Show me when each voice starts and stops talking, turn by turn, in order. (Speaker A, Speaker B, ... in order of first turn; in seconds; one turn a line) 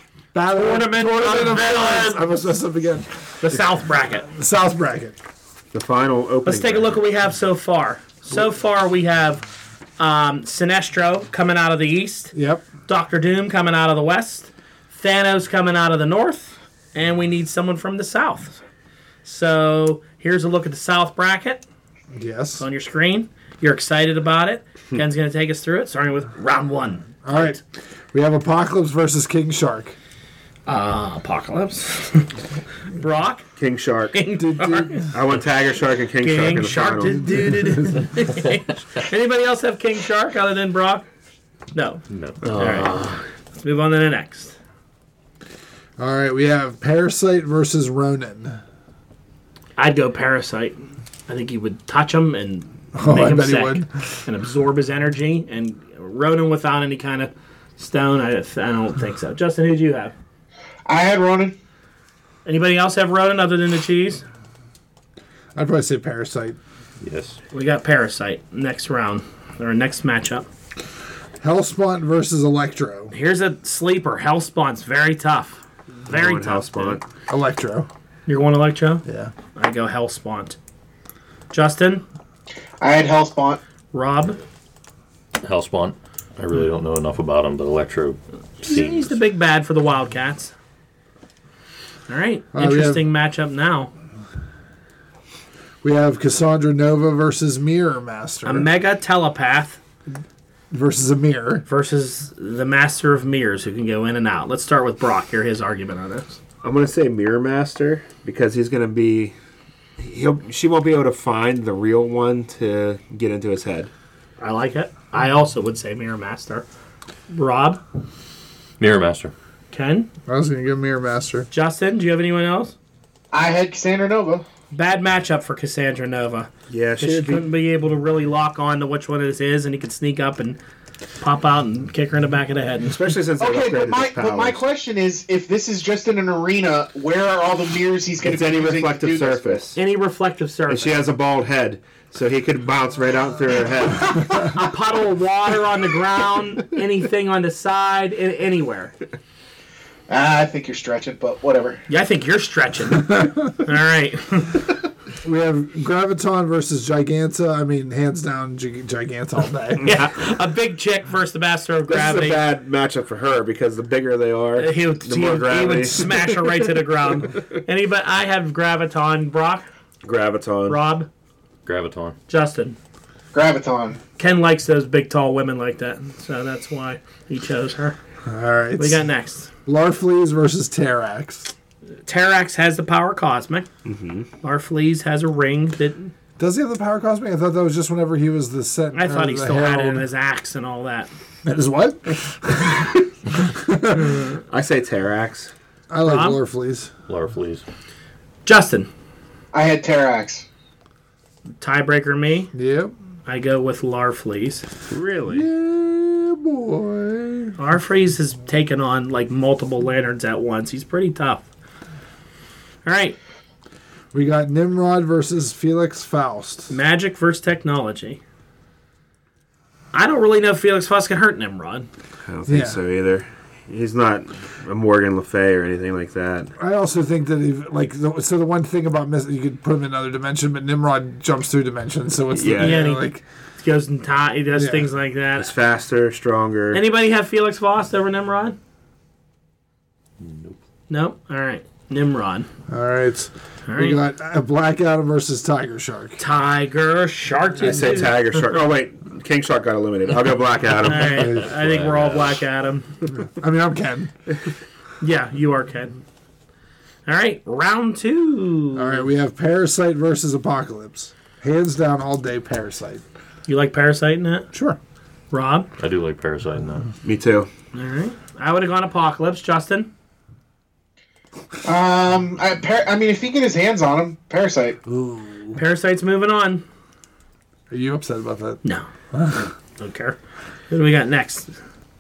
Speaker A: 0.3-3.1
Speaker B: 0.6-2.2
Speaker B: 3.4-4.3
Speaker A: 4.2-5.2
Speaker C: 5.7-7.0
Speaker B: 6.5-9.4
Speaker B: 10.0-12.3
Speaker A: 12.3-12.7
Speaker B: 12.9-18.6
Speaker B: 19.2-21.6
Speaker A: 22.1-22.7
Speaker B: 22.6-27.6
Speaker A: 27.2-27.6
Speaker A: 28.1-30.0
Speaker B: 30.7-32.3
Speaker B: 32.9-33.5
Speaker C: 33.6-37.2
Speaker B: 34.1-35.0
Speaker A: 34.4-35.1
Speaker B: 36.2-41.0
Speaker A: 37.1-38.1
Speaker B: 41.7-43.0
Speaker D: 42.1-43.0
Speaker C: 42.4-43.0
Speaker B: 43.6-44.6
Speaker A: 46.0-48.6
Speaker B: 49.8-60.1
Speaker A: 52.9-53.9
Speaker E: 60.9-61.6
Speaker B: 62.5-64.2
Speaker A: 65.5-66.6
Speaker D: 67.0-67.4
Speaker B: 67.5-70.5
Speaker A: 71.4-73.1
Speaker B: 73.1-77.0
Speaker C: 76.1-77.0
Speaker A: 77.3-77.9
Speaker B: 78.3-79.0
Speaker A: 79.1-79.3
Speaker B: 79.5-80.6
Speaker B: 81.5-82.0
Speaker E: 82.8-83.6
Speaker B: 83.9-84.4
Speaker D: 85.4-89.2
Speaker B: 88.6-90.5
Speaker B: 92.1-93.9
Speaker A: 92.5-93.0
Speaker A: 95.8-98.7
Speaker B: 98.5-99.8
Speaker A: 100.7-101.7
Speaker B: 101.7-106.4
Speaker C: 106.6-109.3
Speaker C: 110.0-113.9
Speaker B: 114.4-116.7
Speaker B: 117.3-117.8
Speaker D: 118.8-119.3
Speaker B: 119.7-120.1
Speaker A: 120.3-121.5
Speaker B: 121.5-122.7
Speaker E: 123.3-124.5
Speaker B: 124.7-130.6
Speaker C: 126.7-127.5
Speaker B: 131.2-133.0
Speaker C: 132.9-134.6
Speaker E: 133.4-139.7
Speaker C: 138.2-139.8
Speaker B: 139.8-141.0
Speaker C: 140.7-144.3
Speaker B: 144.3-148.9
Speaker E: 150.1-151.8
Speaker B: 151.9-154.6
Speaker A: 155.2-159.9
Speaker C: 159.8-160.1
Speaker B: 159.8-162.4
Speaker C: 161.9-166.2
Speaker B: 164.6-169.7
Speaker C: 170.0-170.8
Speaker B: 170.7-171.1
Speaker D: 171.7-172.2
Speaker B: 172.3-172.8
Speaker E: 173.3-174.0
Speaker B: 174.2-178.0
Speaker A: 178.2-179.0
Speaker B: 178.8-179.5
Speaker A: 179.7-181.5
Speaker B: 182.1-183.7
Speaker C: 183.8-184.3
Speaker B: 184.4-186.1
Speaker A: 186.4-190.1
Speaker B: 188.9-191.1
Speaker A: 191.4-194.3
Speaker C: 194.5-195.5
Speaker A: 195.9-196.9
Speaker B: 196.0-196.4
Speaker D: 197.1-197.6
Speaker B: 198.4-198.9
Speaker E: 199.5-200.5
Speaker B: 201.6-202.5
Speaker A: 202.5-202.9
Speaker B: 203.3-204.7
Speaker C: 204.9-205.4
Speaker A: 205.3-207.6
Speaker B: 207.6-211.4
Speaker B: 212.8-213.2
Speaker A: 214.1-216.7
Speaker B: 216.7-218.2
Speaker B: 219.9-221.9
Speaker C: 222.2-226.5
Speaker A: 222.5-222.8
Speaker A: 226.6-233.2
Speaker C: 232.3-232.8
Speaker B: 232.6-233.1
Speaker B: 233.6-235.5
Speaker A: 234.5-234.9
Speaker C: 235.4-236.8
Speaker B: 236.7-238.6
Speaker D: 240.2-240.6
Speaker B: 240.9-242.5
Speaker A: 242.7-246.2
Speaker B: 243.7-244.0
Speaker B: 246.2-248.1
Speaker A: 247.6-248.2
Speaker C: 247.7-251.1
Speaker B: 250.8-252.9
Speaker A: 250.9-251.5
Speaker D: 251.1-252.4
Speaker A: 253.2-254.1
Speaker B: 255.0-255.9
Speaker B: 257.1-259.1
Speaker A: 258.7-263.0
Speaker B: 263.5-264.5
Speaker A: 264.5-264.8
Speaker B: 265.3-265.7
Speaker D: 265.8-266.9
Speaker C: 267.0-267.5
Speaker B: 267.7-269.9
Speaker E: 271.6-274.8
Speaker A: 274.9-275.6
Speaker B: 275.6-276.6
Speaker A: 277.7-279.5
Speaker B: 279.8-280.2
Speaker B: 280.7-281.6